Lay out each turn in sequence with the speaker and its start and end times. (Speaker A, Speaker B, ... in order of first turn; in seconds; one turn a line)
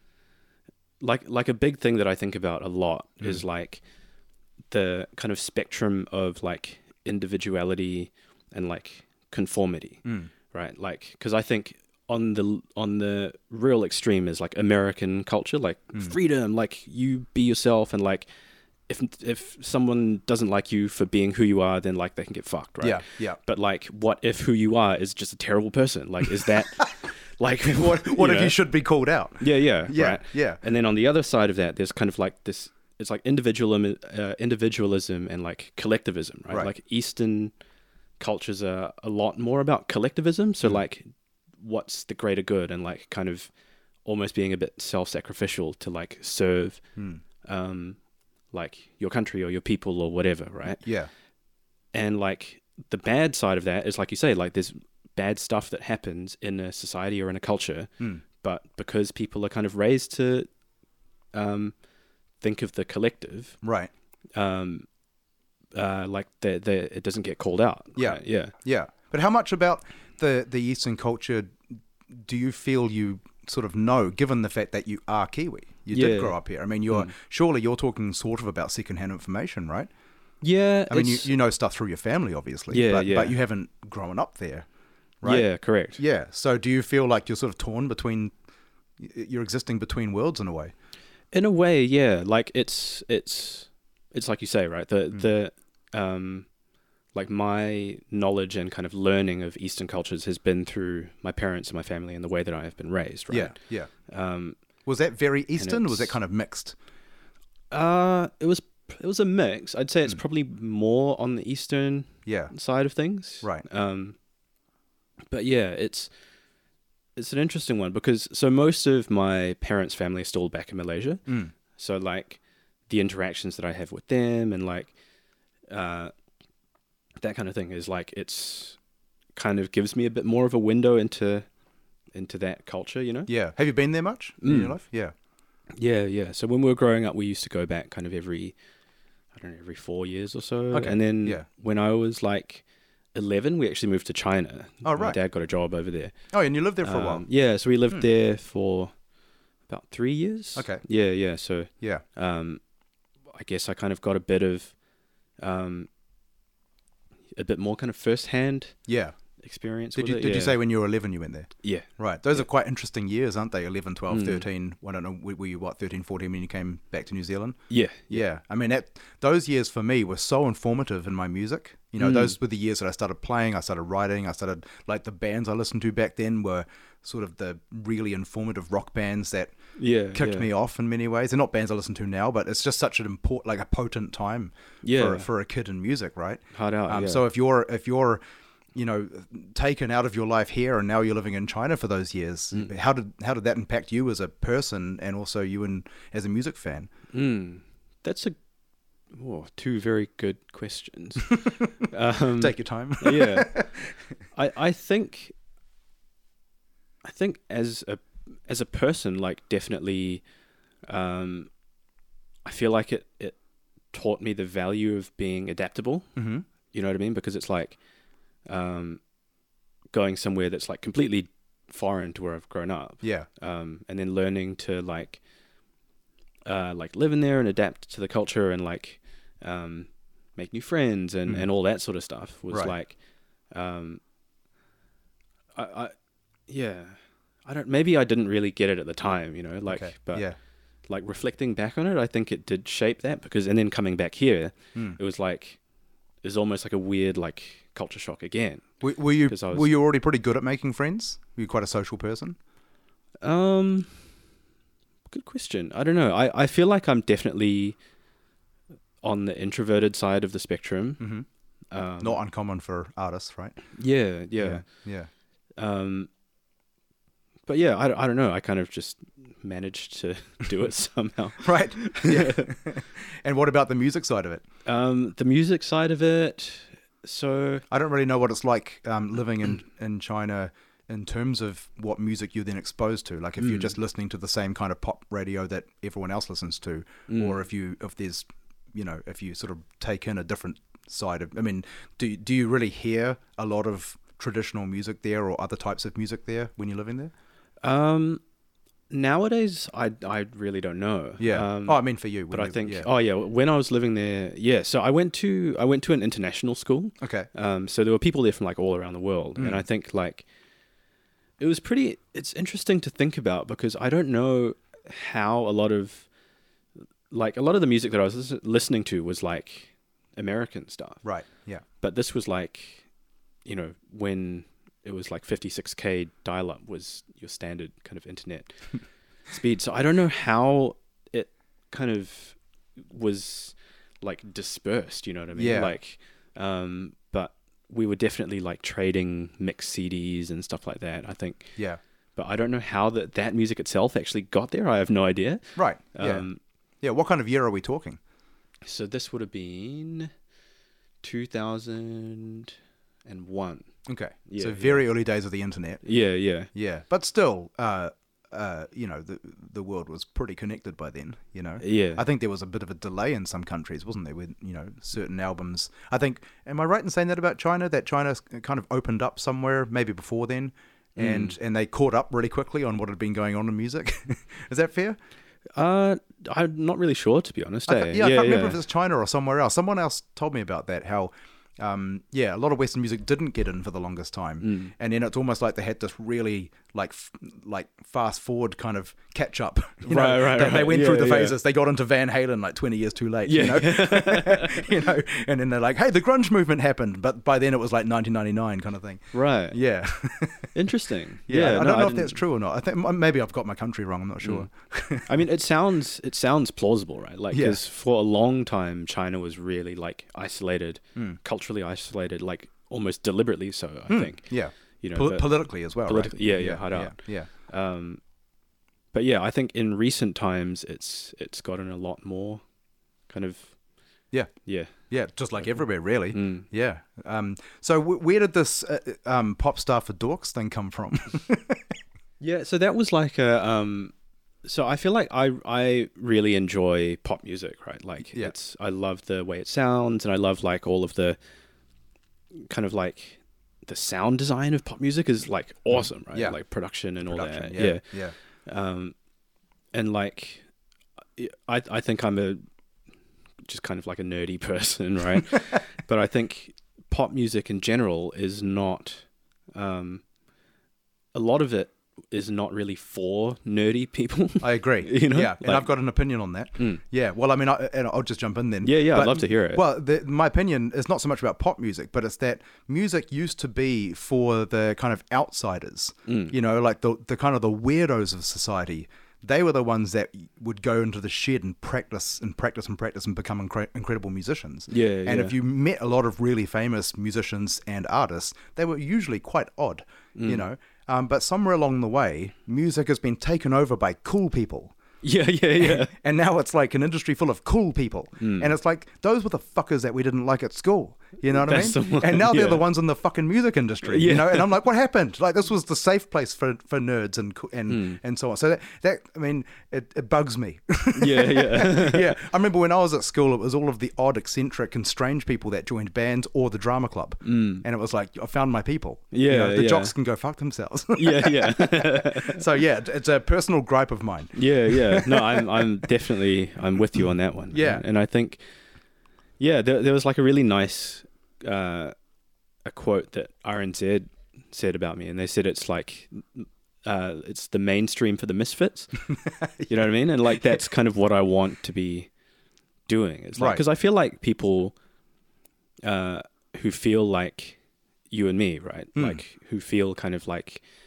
Speaker A: 1.0-3.8
Speaker A: 4.7-18.3
Speaker B: 10.0-10.3
Speaker A: 18.9-28.6
Speaker B: 22.8-23.4
Speaker B: 27.7-30.6
Speaker A: 29.4-37.5
Speaker A: 38.2-41.1
Speaker A: 41.6-43.5
Speaker A: 44.0-46.8
Speaker B: 47.0-47.2
Speaker A: 47.4-48.0
Speaker A: 48.5-50.8
Speaker B: 50.8-51.1
Speaker A: 51.9-60.5
Speaker A: 61.3-61.7
Speaker A: 62.4-63.6
Speaker B: 63.6-63.9
Speaker A: 64.3-64.8
Speaker A: 65.7-68.5
Speaker B: 68.0-71.6
Speaker B: 72.1-79.9
Speaker A: 75.9-76.3
Speaker A: 80.4-81.3
Speaker B: 80.9-84.7
Speaker A: 82.7-83.3
Speaker B: 85.2-88.3
Speaker A: 85.2-86.0
Speaker B: 89.0-90.7
Speaker A: 91.3-96.5
Speaker A: 97.1-104.6
Speaker B: 103.3-103.9
Speaker B: 104.8-106.8
Speaker A: 105.6-106.1
Speaker A: 107.7-114.2
Speaker B: 112.2-112.5
Speaker A: 115.3-116.1
Speaker A: 117.2-124.9
Speaker B: 121.3-121.5
Speaker A: 125.7-126.1
Speaker A: 127.2-128.8
Speaker A: 129.3-131.5
Speaker A: 132.1-133.3
Speaker B: 133.3-135.1
Speaker A: 134.4-134.8
Speaker A: 135.8-138.6
Speaker A: 139.3-146.1
Speaker B: 140.7-141.4
Speaker B: 144.8-145.2
Speaker B: 146.3-147.2
Speaker A: 146.8-148.9
Speaker A: 149.7-152.6
Speaker B: 150.5-150.8
Speaker A: 153.3-154.7
Speaker A: 155.4-155.9
Speaker A: 157.3-158.8
Speaker B: 158.9-159.1
Speaker A: 159.4-160.6
Speaker B: 159.9-167.6
Speaker A: 161.6-162.4
Speaker A: 164.1-164.4
Speaker A: 167.7-168.2
Speaker B: 168.1-179.5
Speaker A: 172.0-172.4
Speaker A: 179.8-180.5
Speaker B: 180.1-188.2
Speaker A: 184.8-185.3
Speaker A: 186.5-187.2
Speaker B: 188.7-196.9
Speaker A: 197.1-198.4
Speaker A: 199.1-203.5
Speaker B: 202.3-204.0
Speaker A: 204.3-205.3
Speaker A: 207.0-210.2
Speaker A: 210.9-211.5
Speaker A: 212.4-213.3
Speaker A: 213.9-216.1
Speaker B: 216.2-216.4
Speaker A: 216.7-217.8
Speaker A: 218.5-219.0
Speaker A: 219.9-225.2
Speaker B: 223.0-223.3
Speaker A: 226.4-232.9
Speaker A: 233.5-234.0
Speaker A: 235.5-235.9
Speaker A: 236.5-240.3
Speaker B: 239.7-240.4
Speaker A: 240.9-245.6
Speaker A: 246.2-249.7
Speaker B: 248.8-252.4
Speaker A: 253.2-253.9
Speaker A: 255.1-257.8
Speaker A: 259.0-261.0
Speaker B: 261.0-261.2
Speaker A: 261.7-262.2
Speaker B: 262.0-263.6
Speaker A: 263.7-264.6
Speaker B: 264.4-265.1
Speaker A: 265.6-266.1
Speaker A: 267.5-272.5
Speaker B: 271.4-274.4
Speaker A: 274.6-277.6
Speaker B: 277.7-297.1
Speaker A: 283.4-283.7
Speaker A: 287.1-287.4
Speaker A: 297.6-298.2
Speaker A: 298.9-310.2
Speaker B: 301.2-302.9
Speaker B: 307.0-307.3
Speaker B: 309.4-309.6
Speaker A: 311.4-316.1
Speaker A: 317.1-321.0
Speaker B: 321.0-321.6
Speaker A: 321.8-322.9
Speaker A: 323.4-328.6
Speaker A: 329.3-341.5
Speaker B: 335.4-335.7
Speaker A: 342.1-346.4
Speaker B: 345.6-346.3
Speaker B: 346.8-348.0
Speaker A: 348.6-350.1
Speaker A: 351.0-352.5
Speaker A: 353.1-353.7
Speaker B: 353.9-355.8
Speaker A: 354.3-354.8
Speaker A: 355.8-356.5
Speaker B: 356.5-375.0
Speaker A: 361.6-362.0
Speaker A: 370.9-371.3
Speaker A: 375.6-378.6
Speaker B: 377.7-400.5
Speaker A: 384.4-384.7
Speaker A: 389.9-391.4
Speaker A: 393.2-394.8
Speaker A: 399.1-399.6
Speaker A: 400.5-402.2
Speaker B: 401.3-405.1
Speaker A: 404.2-404.5
Speaker A: 405.1-418.0
Speaker B: 407.3-407.6
Speaker B: 413.9-417.3
Speaker A: 418.9-422.4
Speaker A: 423.1-423.5
Speaker B: 424.1-431.6
Speaker A: 424.4-424.7
Speaker A: 426.1-426.5
Speaker A: 432.2-433.9
Speaker A: 434.4-441.2
Speaker B: 438.1-438.3
Speaker A: 442.4-447.8
Speaker B: 445.7-446.4
Speaker B: 447.0-448.1
Speaker A: 448.4-448.9
Speaker A: 449.7-450.4
Speaker A: 451.2-452.4
Speaker A: 453.4-460.0
Speaker A: 461.1-465.7
Speaker B: 464.4-494.7
Speaker A: 466.6-466.8
Speaker A: 468.6-469.6
Speaker A: 476.1-476.3
Speaker A: 484.7-485.3
Speaker A: 490.1-490.4
Speaker A: 495.0-495.9
Speaker B: 495.6-525.8
Speaker A: 498.2-498.5
Speaker A: 501.3-502.6
Speaker A: 503.8-504.6
Speaker A: 507.7-508.0
Speaker A: 511.0-512.1
Speaker A: 517.2-517.6
Speaker A: 519.1-519.9
Speaker A: 521.0-522.4
Speaker A: 524.3-528.4
Speaker B: 527.5-527.8
Speaker A: 529.4-531.9
Speaker A: 532.6-538.9
Speaker B: 539.1-540.6
Speaker A: 539.7-542.1
Speaker A: 542.9-544.7
Speaker B: 543.4-543.6
Speaker A: 545.8-547.6
Speaker A: 548.1-550.6
Speaker B: 548.9-549.2